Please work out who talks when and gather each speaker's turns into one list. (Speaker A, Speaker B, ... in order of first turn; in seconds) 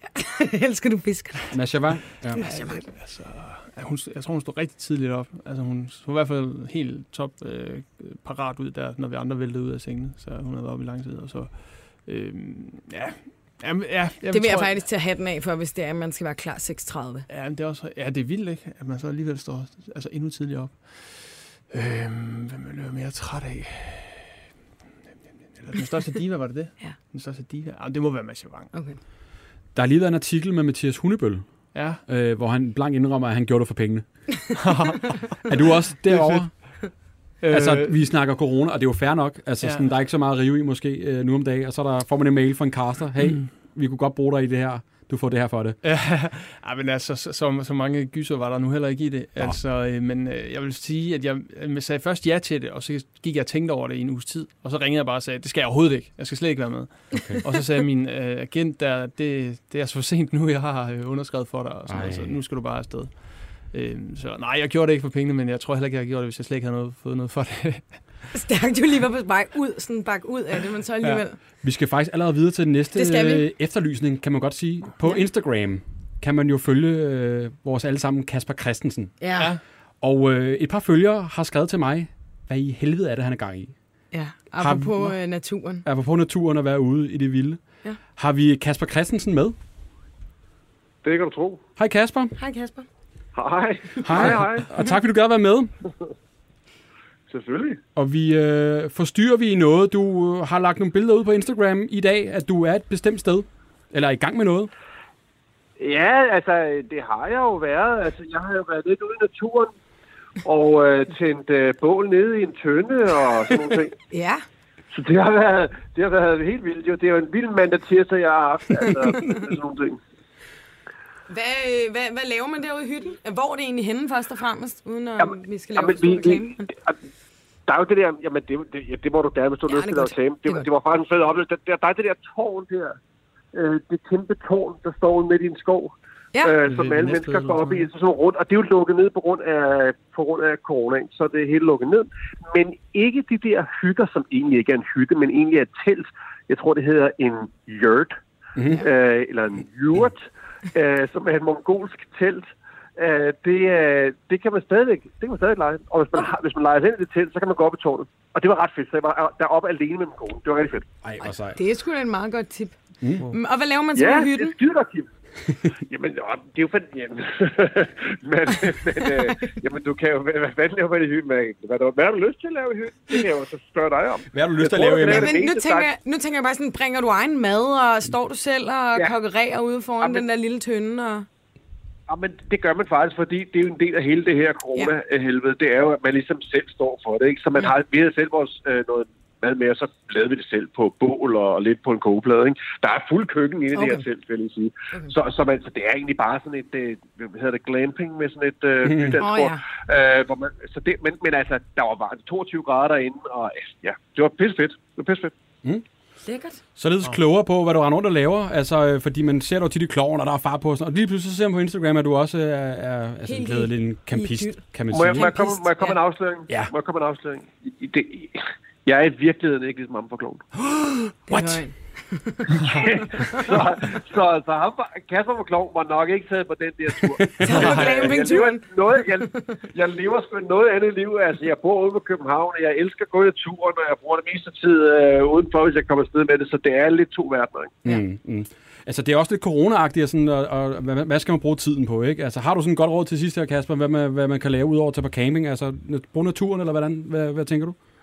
Speaker A: 0.1-1.5, 2.3-2.9, 14.3-17.3, 28.7-29.0, 68.3-71.4, 73.0-73.5, 79.2-79.5, 84.1-85.8, 92.4-92.9, 114.1-114.4, 121.3-126.7, 129.7-130.7, 161.3-162.8, 163.3-164.6, 175.0-181.3, 193.8-194.0, 199.2-199.6, 206.2-206.6, 213.2-216.0, 221.3-223.4, 227.4-228.7
Speaker B: 1.5-2.4, 29.8-34.1, 35.5-36.5, 37.5-45.8, 57.1-57.4, 61.9-62.3, 71.6-79.2, 80.0-83.7, 84.6-85.1, 85.8-87.6, 88.2-89.6, 91.8-92.3, 94.0-95.7, 98.0-104.7, 148.6-148.8, 161.0-161.6, 174.3-175.4, 198.8-199.2, 206.8-215.3, 220.6-221.6, 227.0-227.9, 237.8-247.8
Speaker C: 2.4-14.8, 17.3-24.4, 25.5-28.7, 31.7-32.0, 34.6-35.5, 36.1-36.6, 37.4-37.9, 39.6-39.9, 45.8-68.0, 136.7-137.9
Speaker D: 91.0-91.6, 93.3-94.8, 97.3-97.8, 105.8-109.7, 110.4-113.9, 114.9-120.0, 125.2-127.0, 127.7-133.0, 133.5-148.2, 148.7-160.9, 163.9-165.1, 165.8-175.9, 182.1-205.3, 214.9-220.4, 222.5-237.8